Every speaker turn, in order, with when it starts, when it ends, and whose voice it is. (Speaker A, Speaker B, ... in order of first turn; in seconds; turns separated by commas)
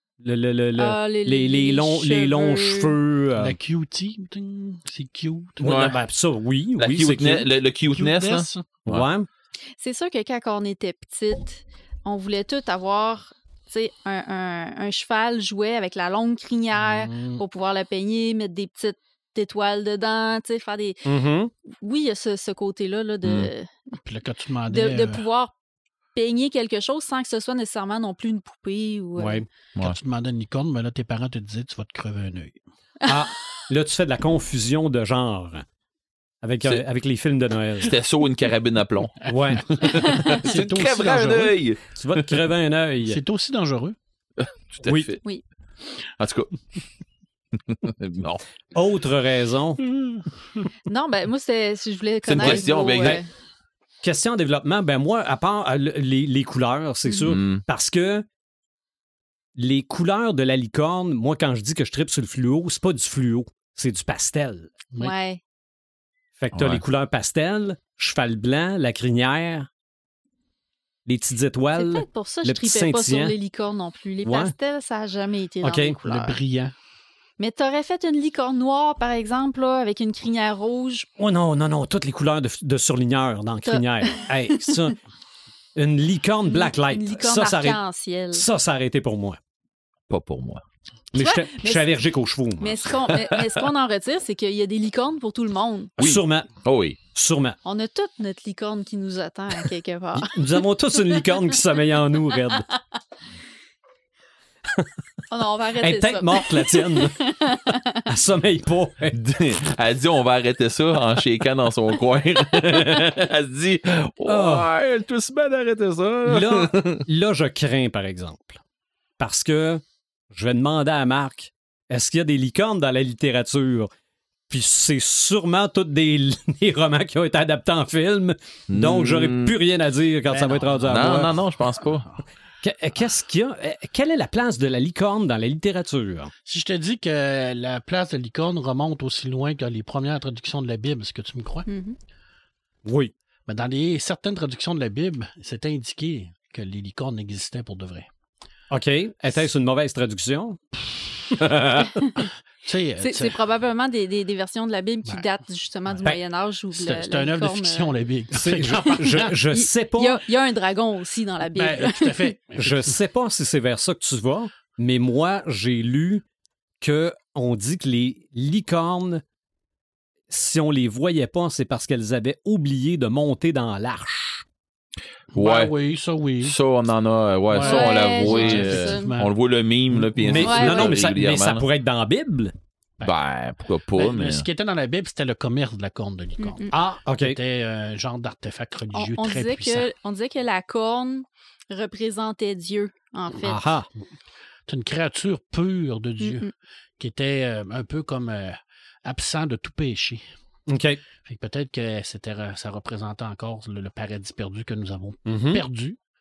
Speaker A: 0.2-3.6, Speaker B: 0.8-3.0, Speaker C: 3.4-6.1, Speaker A: 5.6-7.5, Speaker D: 5.6-6.0, Speaker D: 6.8-9.1, Speaker C: 7.9-8.7, Speaker A: 8.9-9.3, Speaker B: 9.8-21.1, Speaker C: 16.7-17.4, Speaker A: 21.1-21.5, Speaker B: 21.8-23.7, Speaker D: 23.2-23.5, Speaker C: 24.0-25.2, Speaker B: 24.7-25.5, Speaker B: 26.1-29.4, Speaker C: 29.2-32.6, Speaker A: 33.1-35.7, Speaker A: 36.4-38.0, Speaker D: 37.8-42.4, Speaker A: 39.3-40.0, Speaker C: 39.8-41.5, Speaker A: 42.0-43.2, Speaker C: 43.0-44.0, Speaker D: 44.4-45.2, Speaker A: 44.9-45.1, Speaker D: 46.2-46.5, Speaker D: 47.7-48.4, Speaker A: 48.7-49.8, Speaker B: 50.9-53.3, Speaker D: 52.3-53.2, Speaker A: 54.0-58.2, Speaker B: 57.1-57.3, Speaker D: 57.3-57.6, Speaker A: 59.6-64.7, Speaker B: 65.0-65.4, Speaker A: 66.4-69.7, Speaker D: 66.5-66.8, Speaker A: 71.1-73.3, Speaker B: 71.8-76.4, Speaker A: 74.2-74.5, Speaker A: 75.6-76.0, Speaker C: 76.0-76.7, Speaker B: 77.4-81.1, Speaker A: 81.2-85.0, Speaker B: 83.7-84.8, Speaker A: 85.8-87.8, Speaker B: 86.5-88.5, Speaker A: 88.3-89.4, Speaker D: 90.1-90.6, Speaker A: 91.1-92.8, Speaker B: 91.2-91.9, Speaker B: 92.6-95.9, Speaker A: 96.0-96.5, Speaker D: 96.0-97.0, Speaker A: 97.1-97.6, Speaker B: 97.7-101.6, Speaker A: 100.2-102.7, Speaker B: 105.3-108.0, Speaker A: 105.8-107.2, Speaker A: 108.1-109.2, Speaker D: 109.1-117.0, Speaker A: 114.3-114.7, Speaker A: 116.2-118.6, Speaker A: 119.2-123.9, Speaker A: 124.5-131.3, Speaker D: 128.7-129.5, Speaker C: 130.3-131.9, Speaker D: 130.9-132.1, Speaker A: 132.6-136.3, Speaker C: 136.5-141.7, Speaker B: 141.7-142.0, Speaker A: 142.9-143.1, Speaker C: 143.5-148.1, Speaker A: 148.7-150.6, Speaker A: 151.3-151.9, Speaker B: 152.0-152.3, Speaker C: 152.7-153.4, Speaker B: 153.0-157.9, Speaker C: 155.9-156.2, Speaker C: 156.7-159.3, Speaker A: 158.4-160.2, Speaker B: 159.5-162.3, Speaker C: 161.6-163.0, Speaker A: 162.6-166.2, Speaker A: 166.8-169.2, Speaker A: 170.3-174.4, Speaker D: 175.3-175.7, Speaker C: 175.3-176.6, Speaker D: 176.4-181.7, Speaker C: 177.5-179.3, Speaker B: 177.6-179.1, Speaker C: 179.9-180.5, Speaker A: 180.2-182.5, Speaker B: 180.4-180.9, Speaker D: 183.0-184.4, Speaker C: 183.9-189.9, Speaker B: 186.4-186.7, Speaker A: 186.7-187.4, Speaker B: 188.9-193.7, Speaker A: 193.4-193.9, Speaker C: 194.7-200.2, Speaker B: 196.2-196.5, Speaker A: 200.7-201.0, Speaker C: 201.3-206.0, Speaker A: 205.3-205.6